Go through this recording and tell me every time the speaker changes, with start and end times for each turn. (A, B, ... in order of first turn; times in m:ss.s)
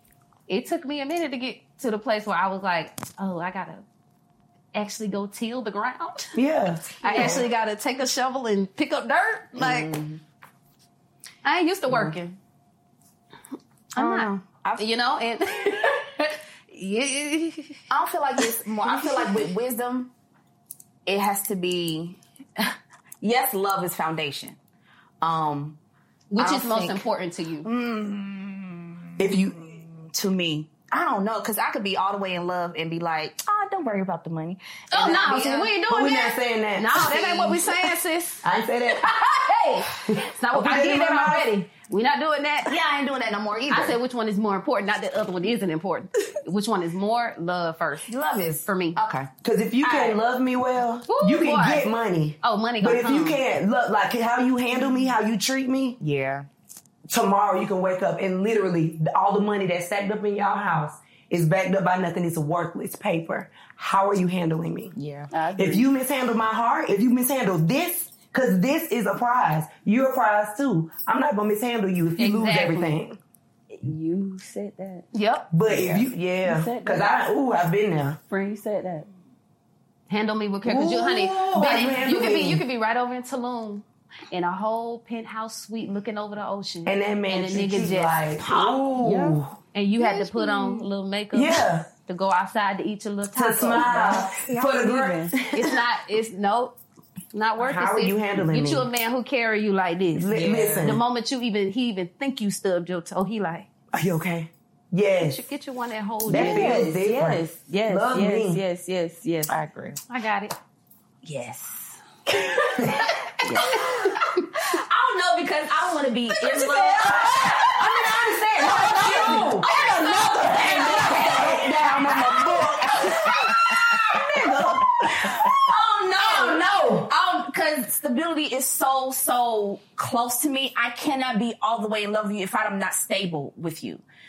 0:00.5-0:03.8 A
0:04.7-0:06.4 A
0:06.3-0:07.4 B
0:07.0-0:10.0 A
0:07.1-0:07.4 C
0:09.6-0:10.2 C
0:11.4-0:12.4 A
0:13.9-0:17.8 A
0:14.0-0:14.8 C
0:17.9-0:20.1 C
0:18.9-0:19.3 A
0:21.0-0:24.6 C
0:25.2-0:25.8 C
0:26.3-0:27.7 A
0:26.4-0:27.0 C
0:27.6-0:35.7 C
0:29.2-0:29.6 B
0:34.9-0:42.7 A
0:35.9-0:37.6 B
0:38.4-0:39.1 B
0:40.1-0:41.5 B
0:42.6-0:44.0 C
0:43.7-0:49.0 A
0:48.1-0:49.3 C
0:49.4-0:56.0 B
0:49.8-0:50.1 C
0:51.1-0:51.9 A
0:52.4-0:53.4 A
0:56.0-0:56.5 D
0:57.1-1:05.0 B
1:05.0-1:05.3 D
1:05.3-1:05.8 E
1:05.6-1:13.2 B
1:12.2-1:13.0 A
1:13.7-1:15.1 E
1:15.1-1:15.5 A
1:15.5-1:18.2 B
1:15.7-1:16.0 D
1:16.4-1:17.2 E
1:18.3-1:19.1 E
1:20.1-1:28.8 A
1:20.6-1:22.6 B
1:26.8-1:29.6 B
1:29.0-1:29.4 D
1:29.7-1:34.2 A
1:31.3-1:31.9 B
1:33.3-1:35.4 B
1:34.2-1:35.5 C
1:35.5-1:36.8 A
1:37.3-1:43.7 A
1:37.6-1:38.9 B
1:40.1-1:41.0 B
1:40.3-1:41.0 D
1:43.9-1:45.4 B
1:45.2-1:46.9 A
1:46.2-1:48.6 B
1:46.3-1:49.6 E
1:49.5-1:50.0 D
1:50.1-1:50.5 A
1:51.2-1:52.0 E
1:52.5-1:53.1 B
1:53.4-1:53.9 E
1:54.6-2:14.0 C
1:56.6-1:57.4 E
1:57.8-1:58.4 A
1:58.2-2:01.6 E
1:58.6-1:59.7 B
2:00.2-2:03.0 B
2:04.2-2:04.6 B
2:06.2-2:07.1 B